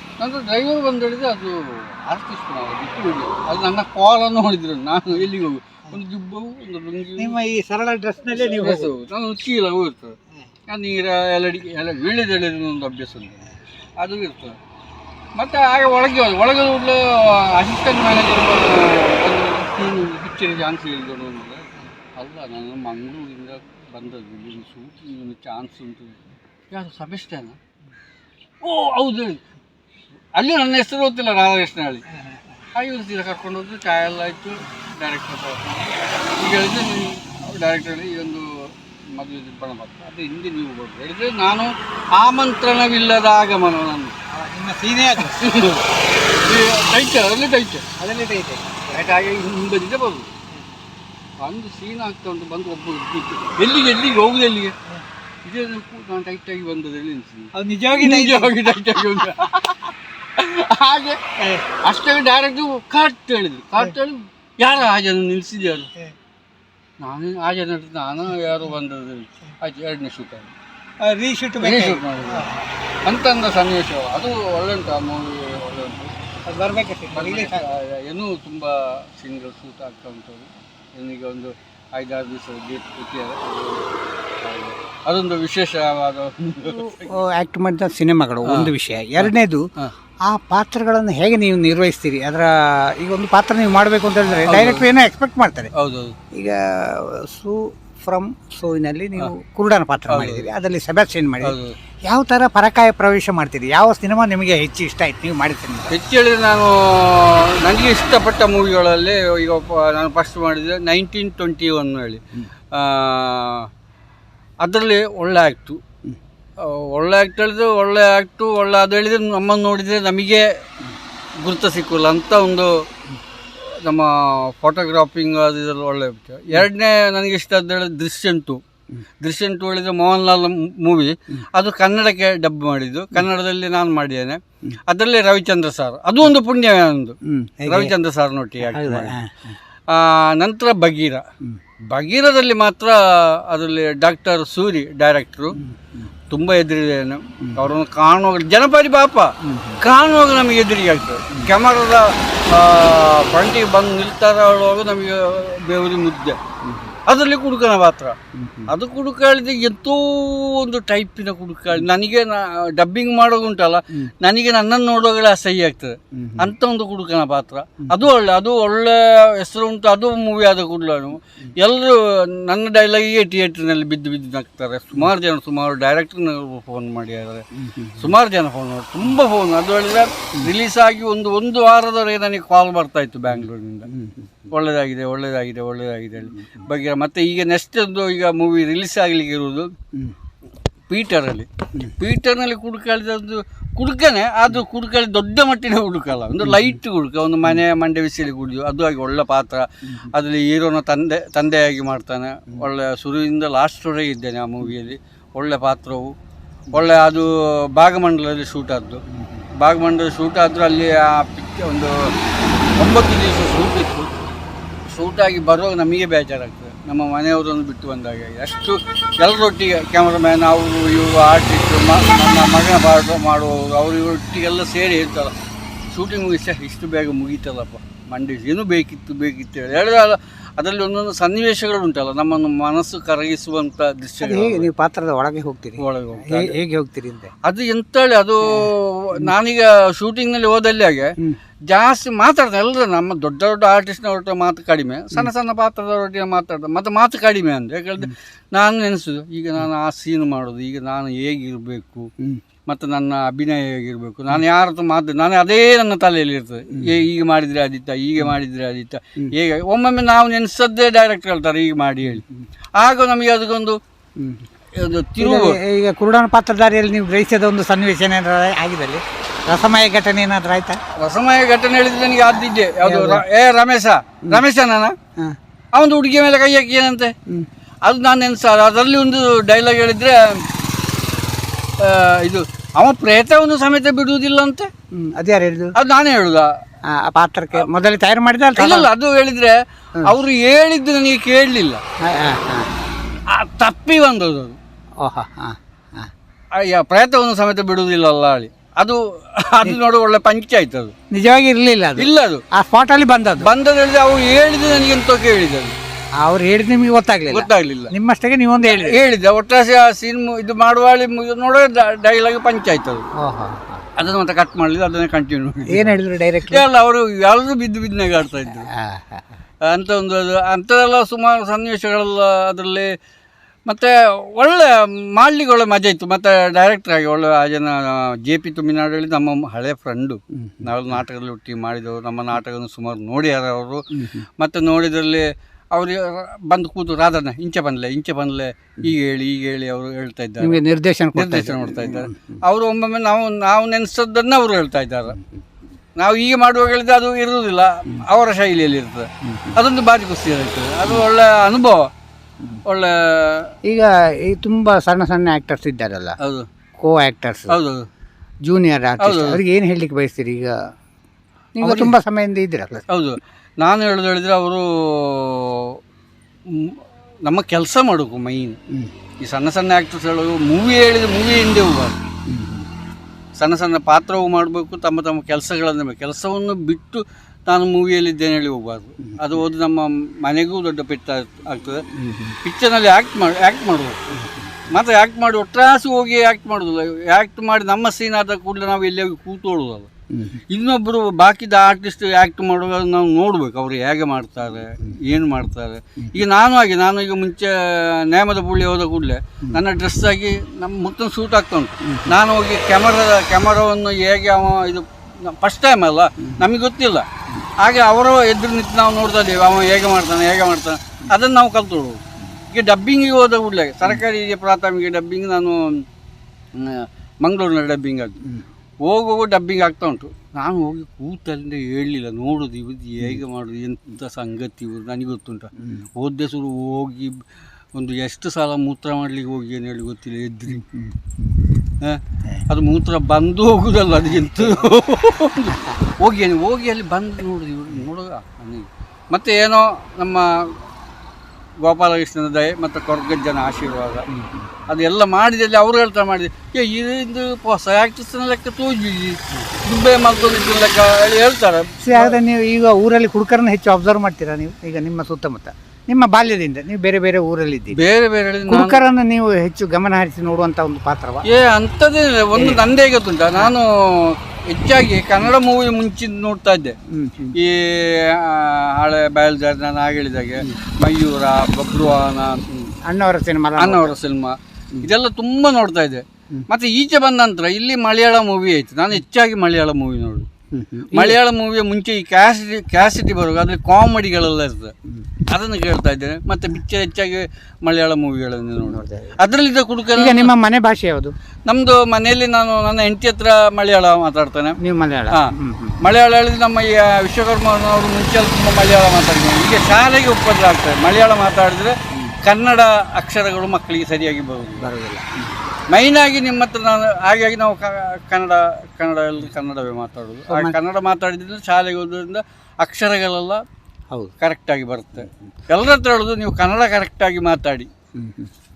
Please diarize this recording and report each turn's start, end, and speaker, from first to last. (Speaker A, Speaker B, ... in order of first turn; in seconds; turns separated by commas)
Speaker A: 0.2-7.3, Speaker B: 7.2-8.9, Speaker A: 8.3-14.6, Speaker A: 15.3-27.6, Speaker A: 28.6-29.4, Speaker A: 30.3-32.0, Speaker A: 32.6-44.1, Speaker B: 44.3-45.4, Speaker A: 45.1-45.9, Speaker A: 46.4-47.9, Speaker B: 48.0-49.0, Speaker A: 48.9-50.3, Speaker A: 51.4-54.7, Speaker A: 55.4-65.9, Speaker B: 57.5-59.5, Speaker B: 61.4-61.6, Speaker A: 67.0-70.5, Speaker B: 71.0-72.6, Speaker A: 71.6-72.5, Speaker A: 73.0-76.2, Speaker B: 76.5-77.6, Speaker A: 77.1-87.1, Speaker B: 86.7-89.7, Speaker A: 88.4-89.9, Speaker B: 90.2-95.7, Speaker A: 94.5-94.8, Speaker A: 95.7-96.1, Speaker B: 96.3-105.9, Speaker A: 100.1-100.5, Speaker A: 101.4-101.8, Speaker A: 105.9-113.7, Speaker A: 114.6-115.8, Speaker A: 116.6-120.6, Speaker A: 121.4-122.9, Speaker A: 123.6-128.6, Speaker A: 129.2-139.2, Speaker B: 137.2-137.9, Speaker B: 138.7-139.6, Speaker A: 139.9-141.2, Speaker A: 141.9-145.6, Speaker B: 145.5-146.1, Speaker A: 146.3-156.4, Speaker B: 149.4-149.8, Speaker B: 156.6-156.9, Speaker A: 157.1-158.2, Speaker B: 158.3-158.7, Speaker A: 158.7-183.9, Speaker B: 166.1-166.5, Speaker B: 177.6-178.1, Speaker B: 183.9-184.5, Speaker A: 184.5-189.7, Speaker A: 190.9-206.1, Speaker B: 196.4-196.7, Speaker A: 206.7-209.0, Speaker B: 209.1-209.5, Speaker A: 209.5-212.1, Speaker A: 212.8-214.1, Speaker A: 214.9-225.3, Speaker A: 225.9-234.7, Speaker B: 234.2-237.3, Speaker A: 235.8-236.5, Speaker A: 237.4-241.1, Speaker A: 241.7-252.1, Speaker A: 252.7-262.2, Speaker B: 262.1-262.4, Speaker A: 262.8-263.8, Speaker B: 264.2-264.5, Speaker A: 264.7-265.6, Speaker B: 265.2-270.8, Speaker A: 271.0-274.9, Speaker B: 272.8-273.2, Speaker A: 275.7-277.1, Speaker A: 277.8-280.4, Speaker A: 281.8-284.7, Speaker B: 284.9-285.7, Speaker A: 285.7-286.5, Speaker B: 286.9-288.9, Speaker A: 288.6-291.8, Speaker B: 292.0-292.7, Speaker A: 293.3-294.6, Speaker B: 295.0-296.1, Speaker A: 296.5-300.9, Speaker B: 301.1-303.5, Speaker A: 302.0-302.4, Speaker A: 303.4-305.8, Speaker B: 306.2-309.0, Speaker A: 307.3-307.9, Speaker A: 308.6-313.1, Speaker B: 313.2-313.8, Speaker A: 314.0-316.0, Speaker B: 315.7-316.6, Speaker A: 316.5-318.7, Speaker B: 318.7-319.2, Speaker A: 319.7-322.9, Speaker A: 323.7-333.9, Speaker B: 330.4-330.6, Speaker B: 333.9-334.2, Speaker A: 334.4-340.6, Speaker B: 340.4-342.4, Speaker A: 341.1-345.2, Speaker A: 346.0-351.9, Speaker B: 349.2-349.6, Speaker A: 352.6-353.5, Speaker B: 353.6-356.2, Speaker A: 356.2-356.4, Speaker B: 356.8-357.5, Speaker A: 357.5-357.8, Speaker B: 358.4-360.6, Speaker A: 359.0-359.4, Speaker B: 361.6-362.8, Speaker A: 361.6-361.9, Speaker A: 362.9-365.8, Speaker A: 366.4-368.6, Speaker A: 369.2-372.0, Speaker B: 372.3-372.7, Speaker A: 373.4-381.9, Speaker B: 381.9-382.4, Speaker A: 382.4-384.0, Speaker B: 384.1-384.7, Speaker A: 384.6-389.9, Speaker B: 390.1-390.4, Speaker A: 390.5-407.1, Speaker B: 401.8-402.1, Speaker B: 406.2-406.4, Speaker A: 407.6-415.8, Speaker A: 416.5-418.2, Speaker A: 418.8-427.2, Speaker B: 425.6-425.9, Speaker A: 427.7-430.6, Speaker B: 430.5-431.4, Speaker A: 431.8-440.6, Speaker B: 434.2-434.6, Speaker B: 435.5-435.8, Speaker A: 441.6-444.1, Speaker B: 444.1-444.5, Speaker A: 444.7-452.2, Speaker B: 451.8-457.8, Speaker A: 457.7-458.8, Speaker B: 458.5-461.2, Speaker A: 461.2-466.8, Speaker B: 462.4-462.6, Speaker B: 466.9-467.4, Speaker A: 467.3-472.7, Speaker B: 472.9-473.9, Speaker A: 473.6-480.3, Speaker B: 480.5-481.2, Speaker A: 480.9-484.7, Speaker A: 485.2-490.3, Speaker B: 488.6-489.1, Speaker B: 489.9-491.1, Speaker A: 491.5-494.6, Speaker B: 494.6-495.8, Speaker A: 495.1-504.7, Speaker B: 504.6-505.4, Speaker A: 505.7-513.4, Speaker B: 510.3-510.5, Speaker A: 514.2-517.7, Speaker B: 518.0-518.3